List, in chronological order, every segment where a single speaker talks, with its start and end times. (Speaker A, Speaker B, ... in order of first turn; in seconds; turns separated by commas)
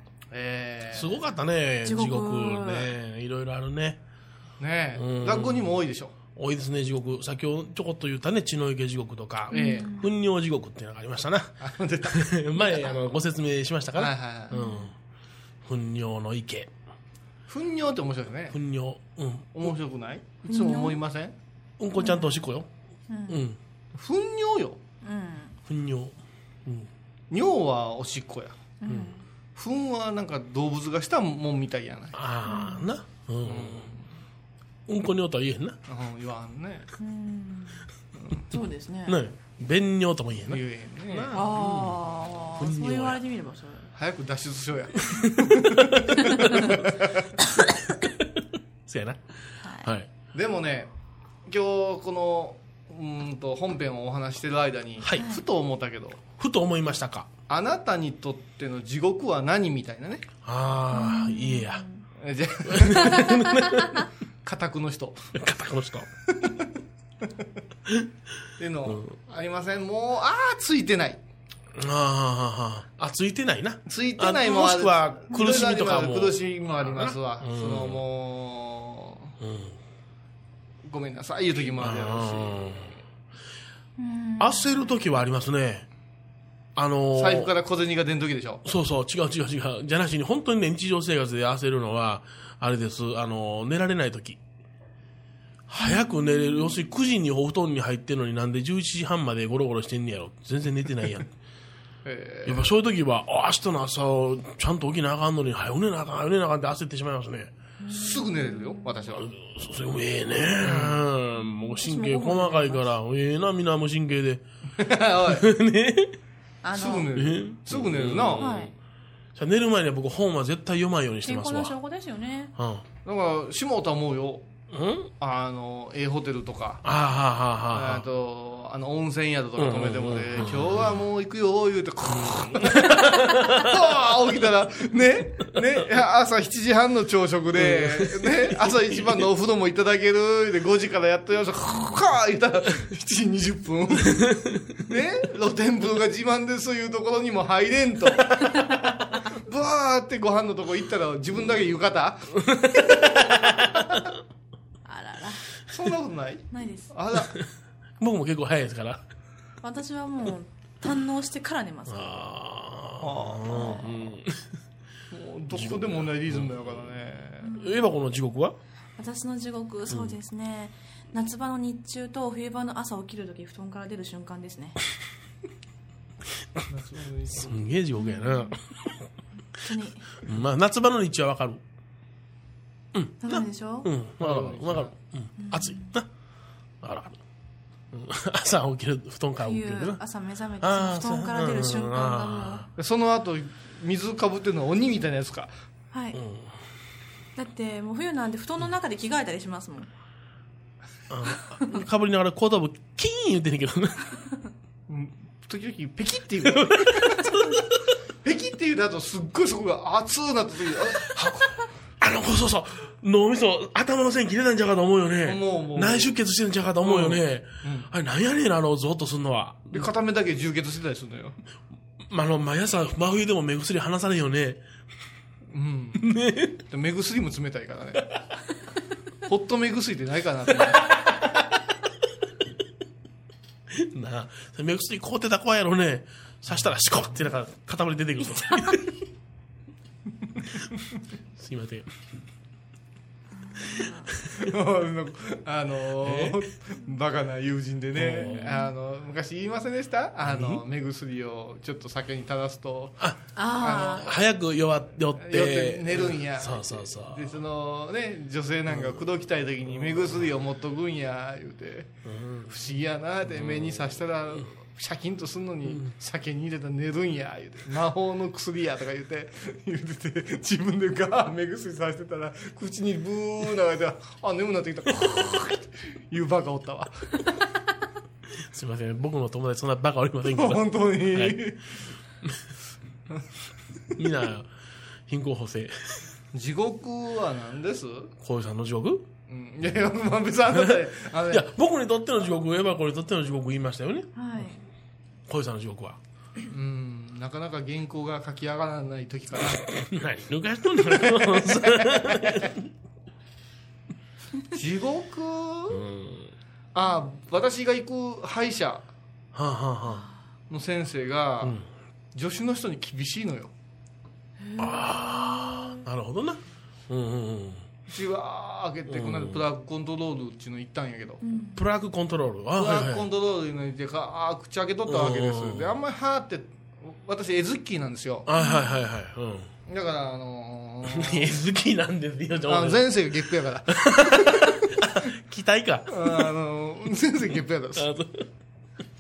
Speaker A: 0.3-1.1, Speaker B: 0.9-4.0, Speaker C: 1.9-2.9, Speaker A: 4.6-6.2, Speaker B: 5.0-5.8, Speaker B: 6.4-14.9, Speaker A: 9.5-9.8, Speaker C: 9.5-10.1, Speaker A: 11.6-12.9, Speaker A: 13.9-14.5, Speaker C: 14.5-14.9, Speaker B: 15.7-16.7, Speaker A: 17.5-18.6, Speaker B: 18.5-19.7, Speaker A: 19.6-21.4, Speaker C: 20.5-21.0, Speaker B: 21.8-22.7, Speaker C: 22.0-22.3, Speaker C: 23.1-23.4, Speaker B: 23.3-23.6, Speaker A: 23.9-24.8, Speaker C: 25.0-25.5, Speaker B: 25.7-26.9, Speaker A: 27.3-28.6, Speaker C: 28.8-29.2, Speaker B: 28.9-29.1, Speaker A: 29.6-32.2, Speaker B: 32.1-33.9, Speaker C: 32.5-32.9, Speaker A: 33.4-34.1, Speaker B: 34.9-35.8, Speaker A: 35.9-36.9, Speaker C: 37.0-37.9, Speaker A: 38.2-38.4, Speaker C: 38.5-39.2, Speaker B: 39.1-43.2, Speaker A: 40.5-41.4, Speaker C: 41.3-43.9, Speaker A: 44.0-47.3, Speaker B: 45.1-46.7, Speaker B: 48.9-49.2, Speaker B: 49.8-50.1, Speaker A: 50.3-50.9, Speaker A: 51.5-56.2, Speaker B: 56.4-57.3, Speaker A: 57.5-60.3, Speaker B: 60.5-61.9, Speaker C: 60.9-62.0, Speaker A: 62.2-63.3, Speaker B: 62.7-64.1, Speaker A: 64.5-65.3, Speaker B: 65.3-66.1, Speaker A: 66.4-66.6, Speaker A: 68.6-71.2, Speaker B: 68.9-69.1, Speaker B: 71.8-78.0, Speaker A: 73.9-79.3, Speaker B: 79.4-79.8, Speaker A: 80.8-83.0, Speaker B: 81.8-82.9, Speaker C: 84.0-84.9, Speaker B: 84.4-85.9, Speaker B: 86.8-87.5, Speaker A: 87.2-88.6, Speaker B: 88.7-94.4, Speaker B: 95.7-101.3, Speaker C: 95.8-96.7, Speaker A: 102.0-102.7, Speaker B: 102.5-107.5, Speaker C: 107.8-108.7, Speaker A: 107.9-109.3, Speaker B: 109.2-114.4, Speaker A: 110.6-111.0, Speaker C: 111.8-112.9, Speaker A: 114.8-115.5, Speaker B: 115.3-116.2, Speaker C: 116.6-117.1, Speaker A: 116.7-118.5, Speaker B: 117.2-118.7, Speaker C: 118.4-118.7, Speaker B: 119.3-121.8, Speaker C: 121.2-122.5, Speaker B: 122.6-122.8, Speaker A: 123.0-124.5, Speaker B: 124.7-125.1, Speaker A: 125.2-126.8, Speaker B: 126.8-128.1, Speaker A: 127.7-154.1, Speaker B: 129.6-131.0, Speaker B: 132.1-133.7, Speaker B: 137.6-139.2, Speaker B: 144.1-144.8, Speaker B: 152.5-152.8, Speaker B: 153.4-153.7, Speaker C: 154.9-155.4, Speaker A: 155.7-157.3, Speaker C: 156.5-156.9, Speaker B: 158.0-159.0, Speaker C: 159.6-162.1, Speaker B: 161.9-164.4, Speaker A: 163.0-163.9, Speaker A: 165.1-167.5, Speaker B: 165.5-166.9, Speaker C: 167.4-167.8, Speaker B: 167.6-168.6, Speaker C: 169.0-174.8, Speaker B: 169.9-170.2, Speaker A: 176.7-177.6, Speaker B: 177.4-178.6, Speaker C: 178.0-178.5, Speaker C: 179.6-180.2, Speaker B: 180.2-181.6, Speaker B: 182.9-186.1, Speaker C: 183.2-183.9, Speaker A: 184.2-184.9, Speaker C: 185.4-185.9, Speaker B: 186.8-187.2, Speaker B: 187.9-190.0, Speaker C: 189.4-192.7, Speaker B: 190.6-192.7, Speaker A: 192.8-195.5, Speaker C: 195.9-196.2, Speaker B: 196.1-196.5, Speaker C: 197.4-199.9, Speaker B: 201.1-204.1, Speaker A: 204.9-207.3, Speaker B: 206.5-207.6, Speaker A: 208.2-211.5, Speaker B: 212.0-219.9, Speaker A: 215.2-216.2, Speaker A: 216.8-217.9, Speaker A: 219.7-221.4, Speaker B: 222.1-224.6, Speaker A: 225.5-226.1, Speaker B: 226.0-226.6, Speaker A: 226.7-228.0, Speaker A: 229.3-230.9, Speaker B: 233.8-239.0, Speaker B: 241.4-241.9, Speaker A: 244.4-254.1, Speaker B: 246.0-246.4, Speaker B: 248.0-248.6, Speaker B: 250.3-250.6, Speaker C: 253.4-254.1, Speaker B: 253.7-257.4, Speaker A: 255.2-261.9, Speaker B: 262.1-262.5, Speaker A: 262.5-277.1, Speaker B: 263.3-264.0, Speaker B: 275.0-275.4, Speaker B: 278.5-281.6, Speaker A: 280.3-281.6, Speaker B: 284.0-284.5, Speaker B: 285.1-286.0, Speaker A: 286.3-288.1, Speaker B: 288.2-289.1, Speaker A: 289.3-291.5, Speaker B: 291.3-294.1, Speaker C: 294.2-294.6, Speaker B: 295.3-296.0, Speaker A: 296.5-299.6, Speaker B: 299.5-302.6, Speaker A: 300.8-302.5, Speaker A: 304.5-305.8, Speaker B: 305.7-306.3, Speaker A: 306.7-308.9, Speaker B: 309.3-310.1, Speaker A: 310.5-311.6, Speaker A: 312.1-313.5, Speaker C: 314.4-315.8, Speaker B: 314.6-317.6, Speaker A: 317.9-321.2, Speaker B: 318.9-319.4, Speaker C: 321.2-321.6, Speaker B: 321.6-323.1, Speaker A: 322.6-328.3, Speaker B: 324.9-325.8, Speaker B: 328.3-329.5, Speaker C: 328.4-328.7, Speaker A: 329.7-331.3, Speaker B: 330.9-333.1, Speaker A: 332.5-334.8, Speaker B: 333.7-336.3, Speaker A: 335.9-337.9, Speaker B: 337.8-338.3